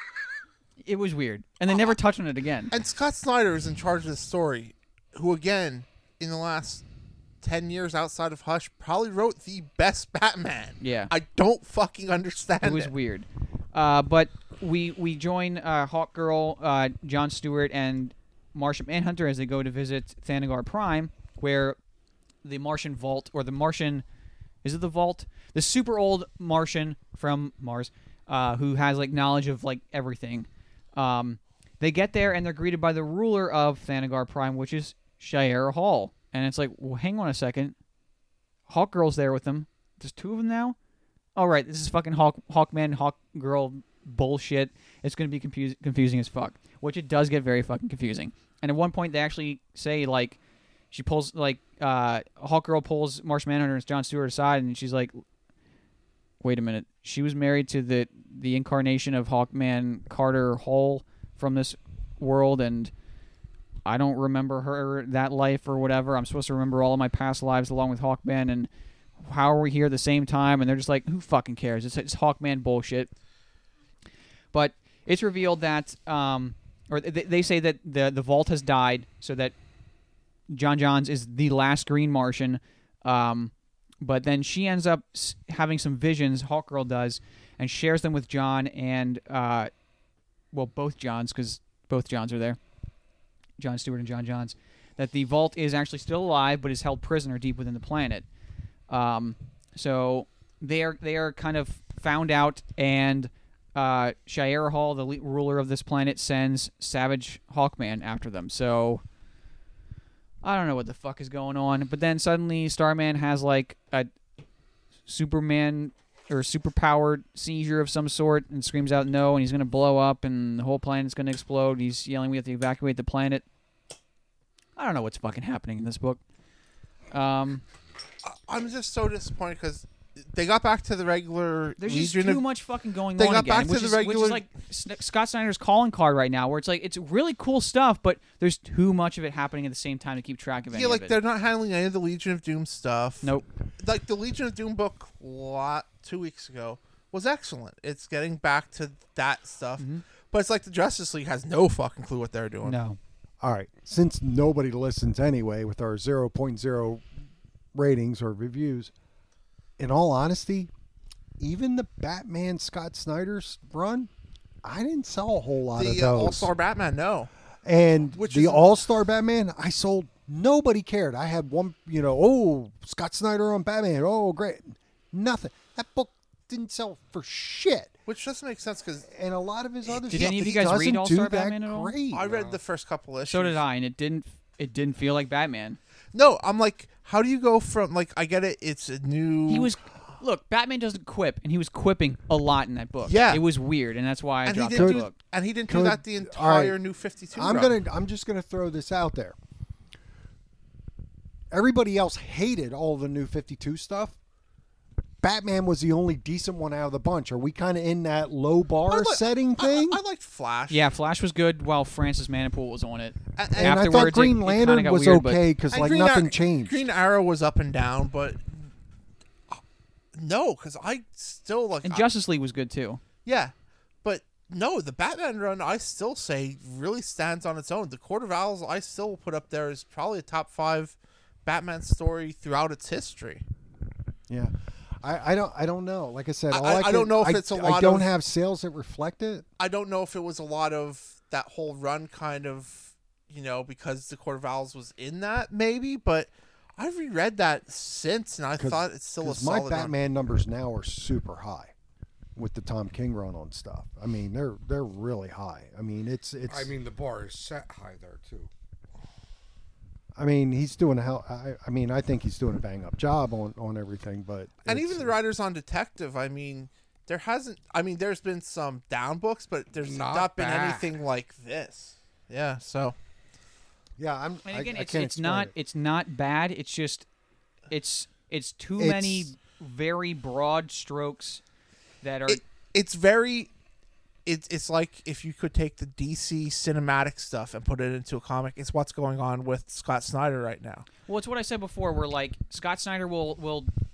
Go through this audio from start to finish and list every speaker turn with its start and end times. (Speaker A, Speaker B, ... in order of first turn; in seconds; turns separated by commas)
Speaker A: 0.8-2.7, Speaker B: 2.7-6.8, Speaker B: 7.4-12.9, Speaker A: 10.8-11.1, Speaker A: 12.6-21.8, Speaker A: 22.4-24.0, Speaker A: 24.6-37.7, Speaker A: 38.7-40.8, Speaker A: 41.4-50.4, Speaker A: 50.9-55.2, Speaker A: 56.4-62.9, Speaker A: 63.8-68.7, Speaker A: 69.2-73.1, Speaker A: 74.5-79.5, Speaker A: 80.5-89.7, Speaker A: 90.5-92.6, Speaker A: 93.6-98.2, Speaker A: 98.9-109.0, Speaker A: 110.4-114.1, Speaker A: 115.0-123.4, Speaker A: 124.8-126.2, Speaker A: 127.1-127.6, Speaker B: 128.2-132.4, Speaker A: 131.8-141.2, Speaker B: 133.2-134.4, Speaker B: 140.7-152.8, Speaker A: 152.6-153.0, Speaker C: 153.4-157.0, Speaker C: 157.7-158.9, Speaker C: 159.8-160.7, Speaker C: 161.4-164.1, Speaker C: 164.6-166.5, Speaker B: 165.8-167.3, Speaker C: 167.6-177.9, Speaker B: 168.1-168.8, Speaker B: 178.1-179.1, Speaker C: 179.1-182.5, Speaker B: 180.0-180.6, Speaker A: 180.1-181.9, Speaker B: 182.1-183.6, Speaker A: 183.3-185.8, Speaker B: 186.1-189.8, Speaker A: 189.5-195.1, Speaker B: 193.1-193.4, Speaker B: 194.4-197.7, Speaker C: 194.7-195.1, Speaker C: 195.7-196.8, Speaker C: 197.3-199.3, Speaker C: 201.5-204.2, Speaker C: 205.2-210.0, Speaker B: 208.9-210.9, Speaker A: 210.7-215.4, Speaker B: 213.3-214.1, Speaker C: 213.5-216.8, Speaker B: 215.7-218.7, Speaker B: 220.1-222.1, Speaker A: 221.8-223.0, Speaker B: 223.2-223.5, Speaker B: 224.0-233.4, Speaker C: 235.0-239.4, Speaker B: 236.5-238.1, Speaker B: 239.6-249.9, Speaker C: 248.6-251.7, Speaker C: 252.3-256.7, Speaker D: 256.5-258.5, Speaker C: 260.2-265.1, Speaker B: 264.6-272.9, Speaker D: 269.8-270.9, Speaker C: 274.0-275.5, Speaker A: 274.4-277.1, Speaker A: 277.7-281.4, Speaker C: 278.8-279.3, Speaker A: 282.0-282.4, Speaker B: 282.3-283.5, Speaker B: 284.2-290.9, Speaker A: 291.0-293.7